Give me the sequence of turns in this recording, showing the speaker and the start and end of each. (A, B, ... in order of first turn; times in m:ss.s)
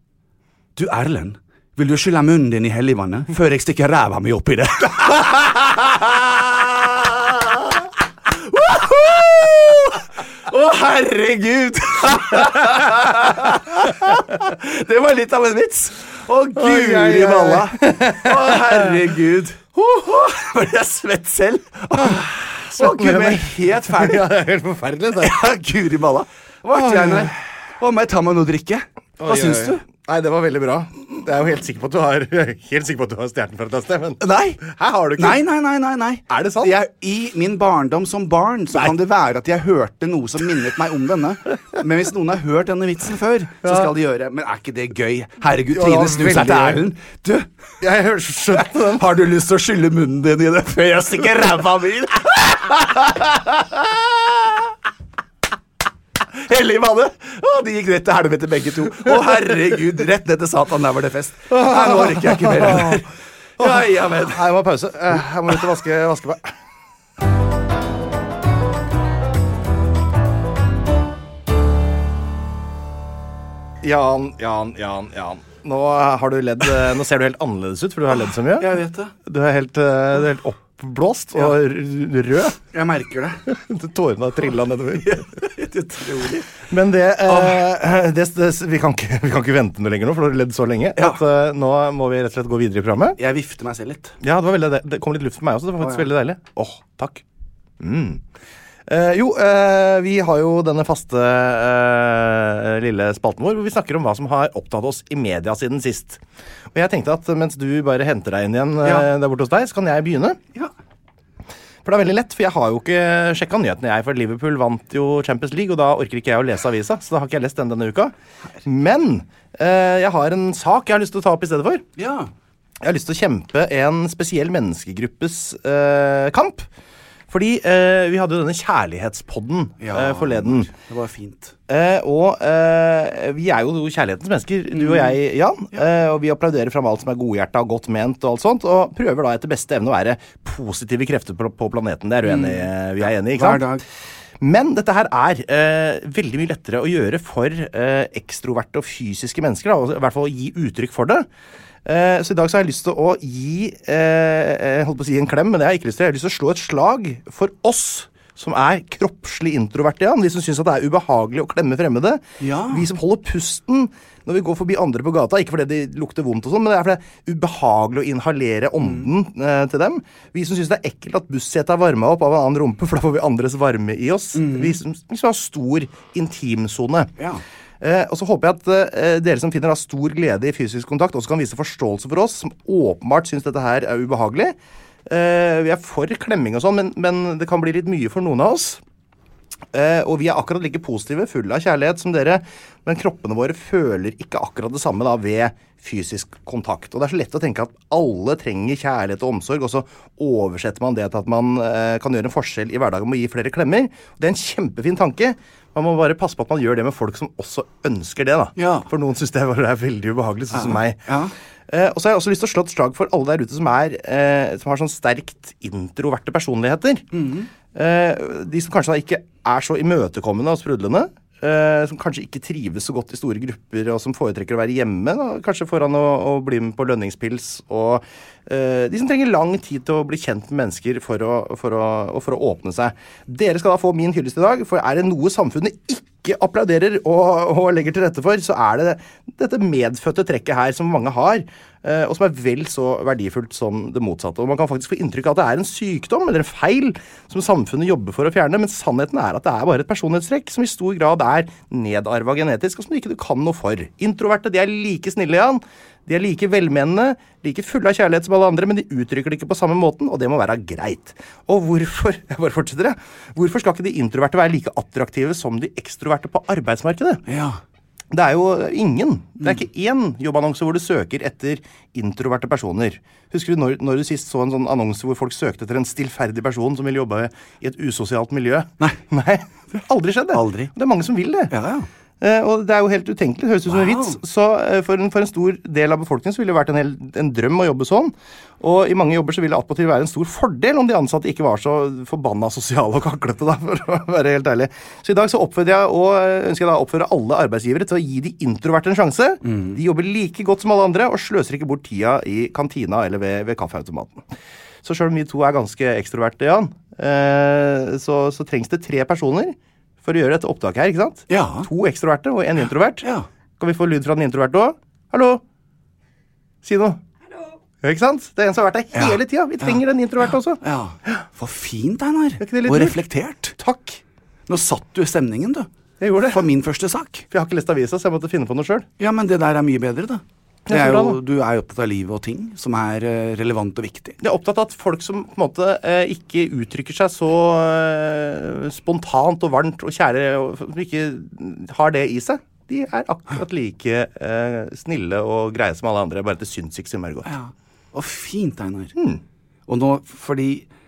0:00.8-0:24.3 A
0:16.6-0:18.8 B
0:22.0-0:25.3 B
0:25.2-0:29.8 A
0:26.7-0:27.3 B
0:29.2-0:35.4 B
0:34.2-0:34.6 A
0:35.2-0:47.5 A
0:36.3-0:36.7 B
0:45.7-0:46.8 B
0:47.8-0:49.0 B
0:48.7-0:54.5 A
0:56.3-1:04.4 A
1:01.5-1:03.0 B
1:03.6-1:06.5 B
1:13.8-1:18.7 B
1:18.6-1:19.1 A
1:19.2-1:22.6 B
1:22.7-1:23.4 A
1:23.5-1:25.2 B
1:25.0-1:26.5 A
1:26.6-1:33.2 B
1:27.3-1:27.6 A
1:33.2-1:34.2 A
1:34.2-1:37.2 B
1:35.8-1:36.0 A
1:37.8-1:38.2 B
1:38.9-1:46.2 B
1:46.7-1:50.4 B
1:51.8-1:58.1 B
1:58.6-2:01.8 B
2:02.0-2:02.3 A
2:02.8-2:06.7 B
2:07.3-2:10.7 B
2:09.8-2:11.6 A
2:11.7-2:23.6 B
2:14.7-2:15.1 A
2:22.2-2:22.7 A
2:23.2-2:23.8 A
2:24.4-2:31.2 B
2:31.8-2:57.1 B
2:42.4-2:42.9 A
2:48.8-2:49.1 A
2:54.3-2:54.8 A
2:57.8-3:04.5 B
3:05.1-3:08.8 B
3:09.7-3:31.0 B
3:28.6-3:28.9 A
3:30.5-3:31.3 A
3:31.7-3:37.1 B
3:37.1-3:37.5 A
3:37.7-4:27.2 B
4:27.3-4:27.6 A
4:28.1-4:41.5 B
4:40.3-4:40.7 A
4:41.5-4:41.9 A
4:42.2-5:04.3 B
4:43.7-4:44.2 A
4:59.4-4:59.8 A
5:04.8-5:13.0 B
5:11.3-5:11.7 A
5:13.6-5:15.4 B
5:16.6-5:17.0 B
5:17.8-5:21.2 B
5:18.9-5:19.8 A
5:20.6-5:23.6 A
5:22.4-5:23.0 B
5:23.6-5:24.0 B
5:24.5-5:25.7 A
5:26.0-5:26.4 B
5:26.3-5:27.2 A
5:27.3-5:28.9 B
5:29.0-5:34.2 A
5:30.7-5:31.2 B
5:34.2-5:47.3 B
5:47.2-5:48.9 A
5:49.0-5:49.2 B
5:49.7-5:50.7 A